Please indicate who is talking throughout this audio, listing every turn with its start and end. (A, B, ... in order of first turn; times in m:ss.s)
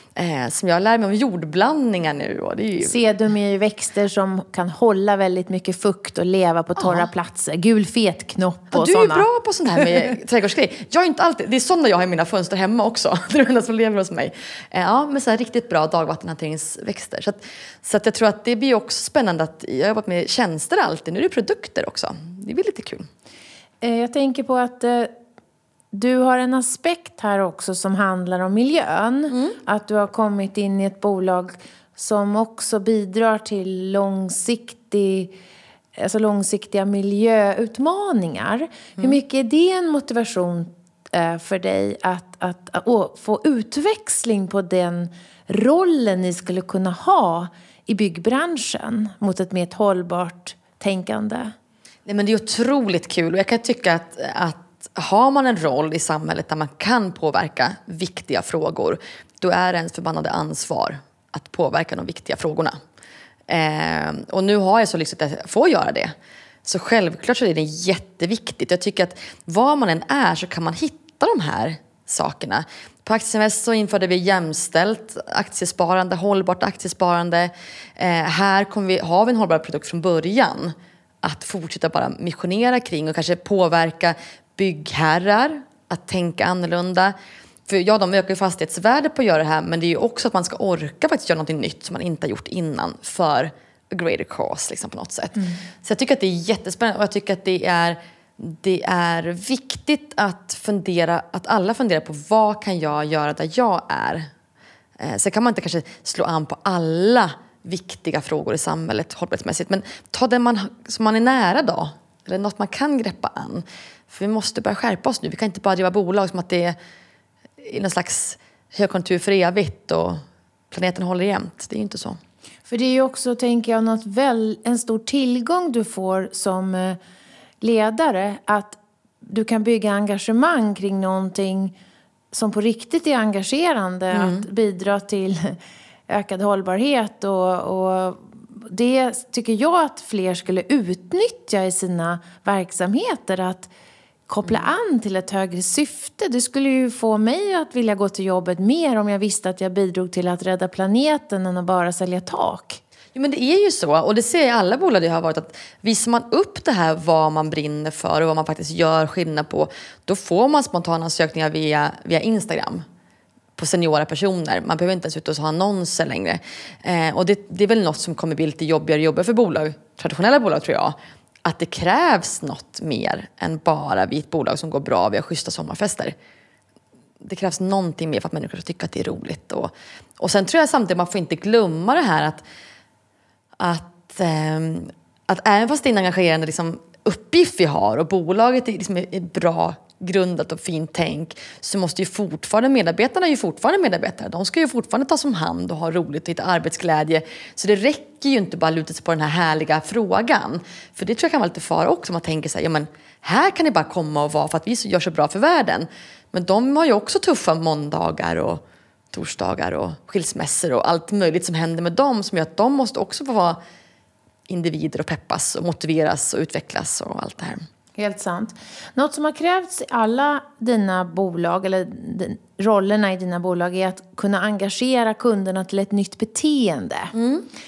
0:00.2-0:03.0 A
0:02.8-0:09.3 B
0:06.8-0:07.0 A
0:08.7-0:23.1 A
0:23.8-0:25.1 B
0:25.9-0:35.3 B
0:36.0-0:51.5 B
0:52.1-1:02.8 A
1:03.5-1:27.1 A
1:27.7-1:44.3 A
1:45.0-1:56.8 A
1:57.6-2:02.2 A
2:02.7-2:07.0 B
2:07.6-2:11.7 B
2:12.3-2:15.6 B
2:14.1-2:14.5 A
2:16.1-2:23.7 B
2:24.3-2:32.8 B
2:33.2-2:42.8 A
2:43.6-2:56.2 A
2:57.2-3:02.4 A
3:03.6-3:33.6 A
3:34.5-3:37.6 A
3:38.0-3:47.2 B
3:47.2-3:47.5 A